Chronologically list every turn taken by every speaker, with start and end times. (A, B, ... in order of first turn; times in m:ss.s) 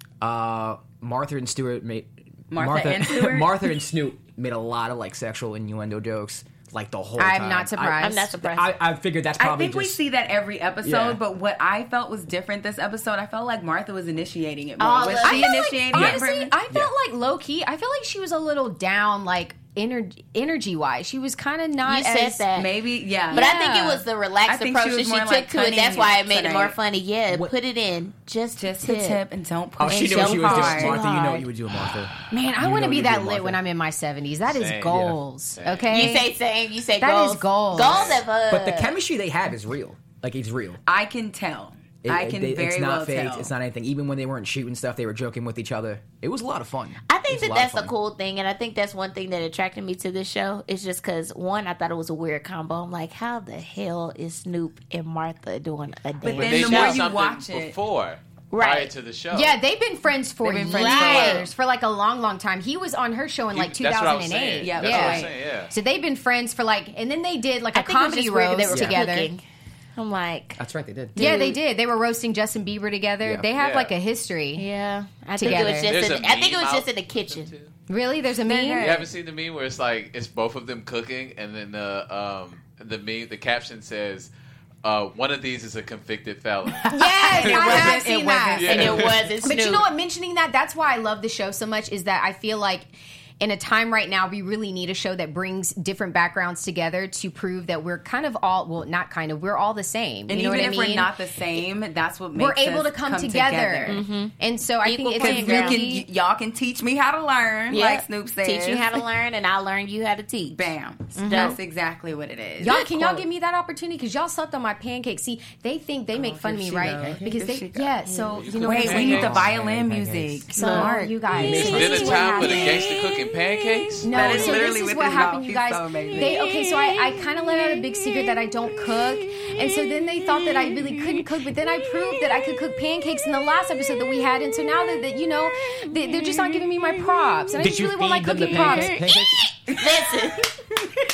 0:00.2-0:10.0 A
0:02.5-0:03.6 B
0:07.2-0:08.3 C
0:08.0-0:08.7 D
0:09.4-0:16.5 B
0:10.8-0:11.2 A
0:14.8-0:15.7 D
0:15.2-0:22.4 C
0:15.9-0:16.9 A
0:21.8-0:22.7 D
0:22.5-0:23.5 B
0:23.3-0:24.0 C
0:23.3-0:29.2 D
0:24.4-0:26.8 B
0:27.3-0:27.5 A
0:28.6-0:31.0 B
0:29.8-0:33.6 A
0:29.8-0:31.5 D
0:32.3-0:36.3 C
0:34.5-0:36.0 E
0:35.9-0:38.9 D
0:37.0-0:38.2 C
0:37.8-0:38.2 E
0:38.5-0:40.8 A
0:40.8-0:43.5 B
0:42.0-0:47.9 A
0:47.1-0:56.9 D
0:56.2-0:57.8 B
0:56.3-0:59.6 E
0:58.5-0:58.9 D
0:59.3-1:09.3 C
1:00.4-1:01.5 B
1:00.7-1:01.5 D
1:03.5-1:05.7 E
1:04.6-1:05.3 B
1:07.7-1:09.4 D
1:08.7-1:09.0 A
1:10.0-1:10.6 D
1:10.6-1:11.2 A
1:11.2-1:11.6 D
1:11.2-1:14.6 C
1:13.5-1:13.9 E
1:14.6-1:17.5 D
1:15.3-1:15.9 C
1:15.5-1:17.7 E
1:17.9-1:19.0 C
1:18.4-1:19.1 B
1:18.8-1:24.3 E
1:24.8-1:26.9 E
1:26.8-1:29.1 B
1:26.9-1:41.1 C
1:27.4-1:27.8 E
1:27.6-1:28.0 D
1:28.6-1:29.2 E
1:28.6-1:29.9 D
1:40.3-1:44.0 B
1:42.3-1:46.0 C
1:43.9-1:45.8 D
1:45.2-1:49.0 B
1:47.7-1:51.6 D
1:50.5-1:52.8 B
1:51.1-1:51.6 C
1:52.6-1:59.4 C
1:52.6-1:53.2 D
1:56.1-2:01.2 B
1:56.9-1:57.3 A
1:58.0-1:59.1 D
1:58.4-1:59.5 E
1:58.9-2:00.5 A
2:00.5-2:03.0 C
2:00.6-2:01.0 D
2:01.3-2:02.2 A
2:01.3-2:04.6 E
2:04.0-2:19.1 C
2:04.1-2:06.4 B
2:17.6-2:19.5 A
2:18.5-2:20.6 D
2:19.7-2:20.1 B